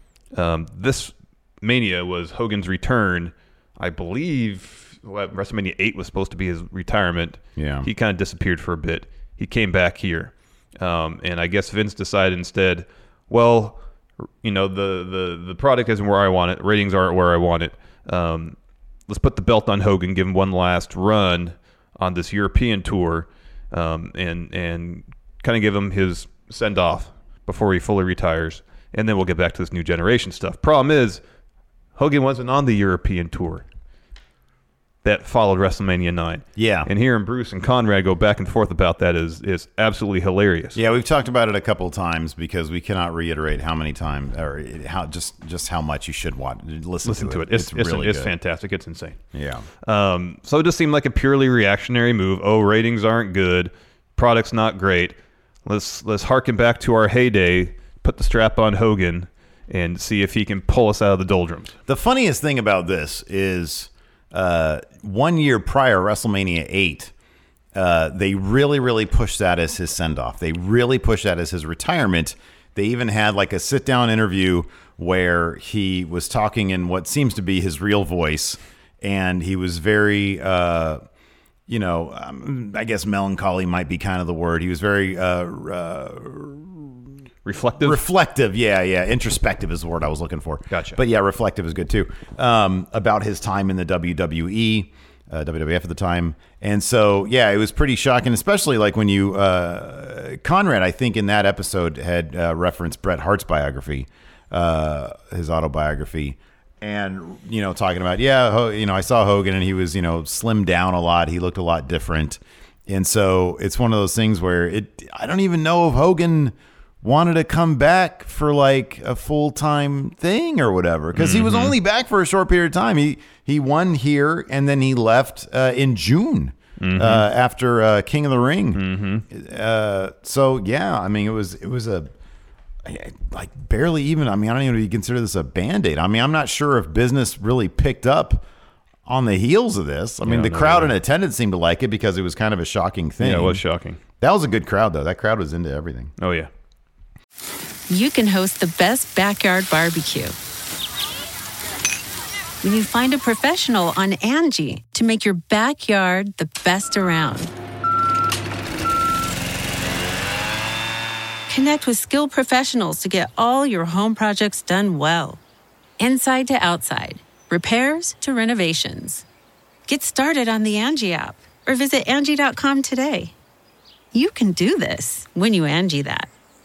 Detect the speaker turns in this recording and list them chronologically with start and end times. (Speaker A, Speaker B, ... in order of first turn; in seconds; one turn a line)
Speaker A: 0.3-13.8
Speaker B: 7.5-7.9
Speaker A: 14.4-18.6
Speaker A: 19.1-31.2
Speaker A: 31.9-33.6
Speaker A: 35.0-40.8
Speaker B: 36.5-36.9
Speaker B: 40.7-48.3
Speaker A: 47.0-49.2
Speaker B: 49.3-49.7
Speaker A: 49.8-61.7
Speaker B: 61.9-67.1
Speaker B: 67.7-81.0
Speaker B: 81.7-87.0
Speaker A: 87.4-88.0
Speaker B: 87.8-132.1
Speaker A: 90.7-91.0
Speaker A: 121.1-121.8
Speaker A: 126.8-127.3
Speaker A: 128.7-129.2
Speaker B: 132.8-138.4
Speaker B: 139.1-143.6
Speaker A: 140.2-140.9
Speaker A: 143.2-144.0
Speaker B: 144.2-146.1
Speaker A: 146.2-146.5
Speaker C: 147.9-150.3
Speaker C: 152.6-157.5
Speaker C: 161.5-165.4
Speaker C: 166.0-169.2
Speaker C: 169.9-173.3
Speaker C: 174.1-176.3